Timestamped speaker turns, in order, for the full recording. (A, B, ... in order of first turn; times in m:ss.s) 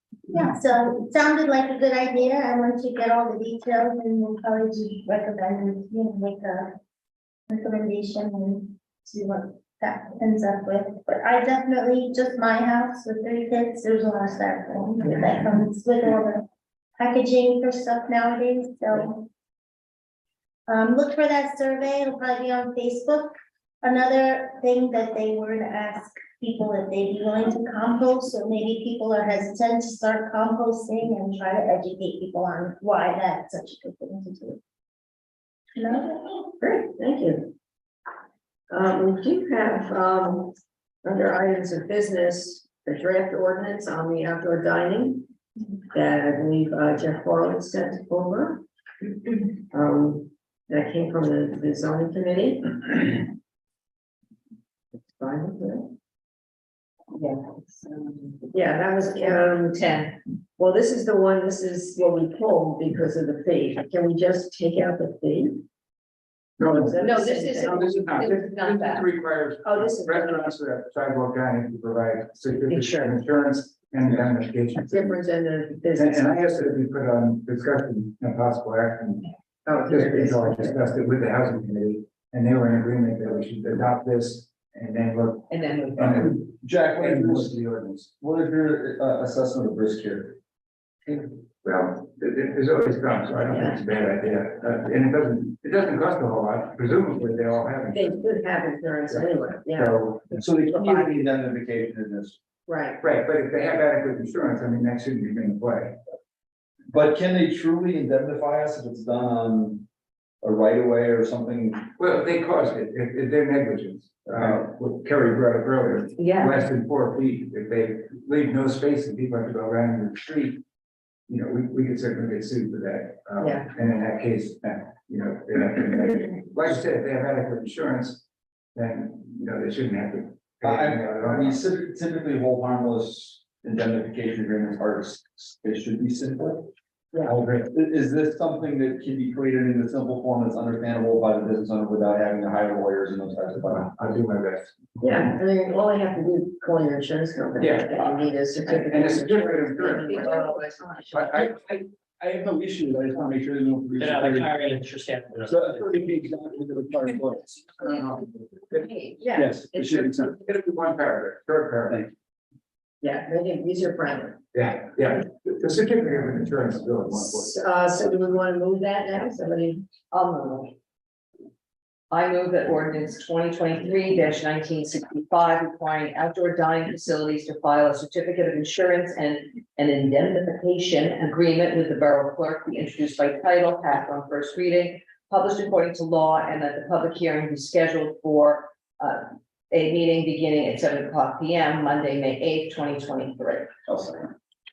0:00.3-0:06.8 A
0:07.5-0:16.4 A
0:15.0-0:15.3 B
0:17.0-0:19.3 A
0:20.7-0:34.6 A
0:35.8-0:36.4 A
0:36.6-0:37.5 B
0:38.7-0:45.3 B
0:45.9-0:48.6 B
0:49.6-0:53.3 B
0:55.2-0:55.9 B
0:58.5-1:05.6 B
1:06.6-1:15.2 C
1:06.7-1:09.0 B
1:09.6-1:10.6 B
1:12.7-1:13.2 B
1:14.9-1:16.7 B
1:16.0-1:19.3 C
1:19.7-1:20.8 B
1:19.9-1:28.1 C
1:26.0-1:27.6 D
1:28.2-1:30.4 D
1:31.1-1:38.3 C
1:33.5-1:33.8 B
1:37.9-1:41.2 B
1:39.8-1:42.4 D
1:42.7-1:43.0 B
1:43.0-1:46.0 C
1:46.9-1:49.9 D
1:50.4-1:51.9 D
1:52.0-2:00.6 C
1:56.2-1:56.5 E
2:01.3-2:08.2 C
2:03.4-2:03.7 B
2:08.8-2:11.7 C
2:10.6-2:16.7 D
2:17.2-2:17.7 C
2:17.7-2:23.9 D
2:23.7-2:24.8 C
2:25.0-2:31.2 B
2:27.6-2:30.3 C
2:30.2-2:30.8 E
2:31.1-2:31.6 C
2:31.4-2:34.6 D
2:34.0-2:36.0 F
2:35.5-2:37.6 D
2:37.8-2:38.9 C
2:39.2-2:40.2 B
2:39.4-2:40.4 D
2:40.3-2:42.1 C
2:43.0-2:44.4 B
2:44.5-2:47.6 C
2:47.1-2:50.7 B
2:52.1-3:14.2 E